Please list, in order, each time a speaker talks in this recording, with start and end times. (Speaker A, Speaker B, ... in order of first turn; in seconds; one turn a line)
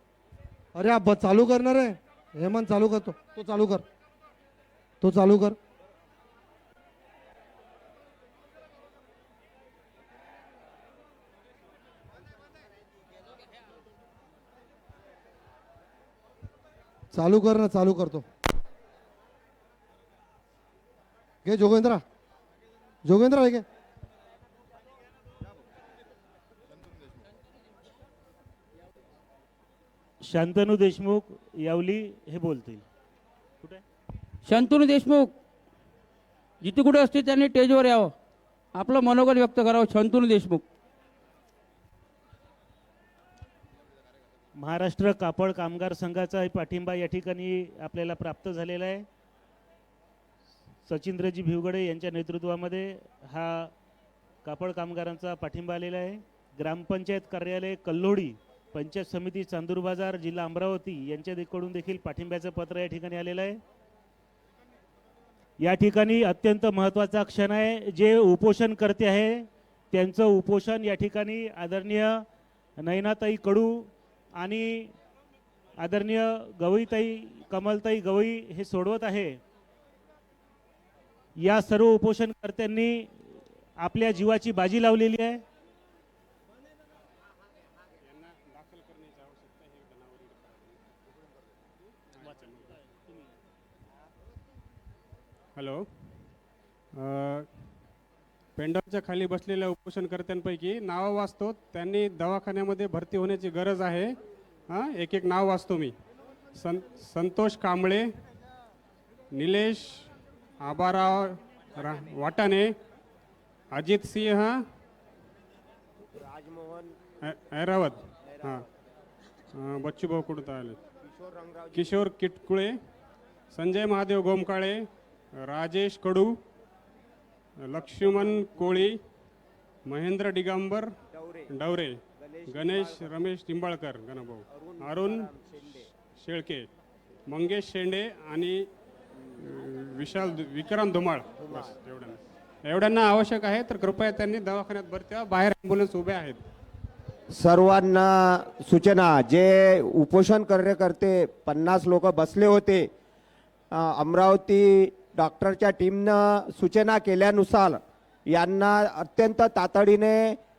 Speaker A: 0.7-3.8
Speaker A: 5.0-5.6
Speaker A: 17.1-18.2
Speaker A: 21.4-22.0
Speaker A: 23.0-23.6
Speaker B: 30.2-32.8
Speaker C: 34.4-35.3
Speaker C: 36.6-38.1
Speaker C: 38.7-40.6
Speaker B: 44.5-49.0
Speaker B: 50.8-53.7
Speaker B: 54.4-63.6
Speaker B: 65.6-72.2
Speaker B: 72.8-74.9
Speaker B: 75.8-79.4
Speaker B: 81.4-85.4
Speaker D: 88.0-90.8
Speaker D: 92.1-92.8
Speaker D: 95.5-95.8
Speaker D: 97.0-97.5
Speaker D: 98.5-104.1
Speaker D: 104.7-105.9
Speaker D: 106.5-108.1
Speaker D: 109.3-110.1
Speaker D: 110.6-112.7
Speaker D: 113.7-114.5
Speaker E: 116.2-116.9
Speaker D: 117.2-118.7
Speaker D: 119.6-120.8
Speaker E: 121.1-121.6
Speaker D: 121.7-122.8
Speaker D: 123.5-124.8
Speaker D: 125.4-126.3
Speaker D: 127.6-129.0
Speaker D: 129.8-130.9
Speaker D: 131.5-136.7
Speaker D: 137.3-138.6
Speaker D: 139.4-146.4
Speaker E: 147.3-152.9
Speaker E: 153.7-157.8
Speaker E: 158.3-160.4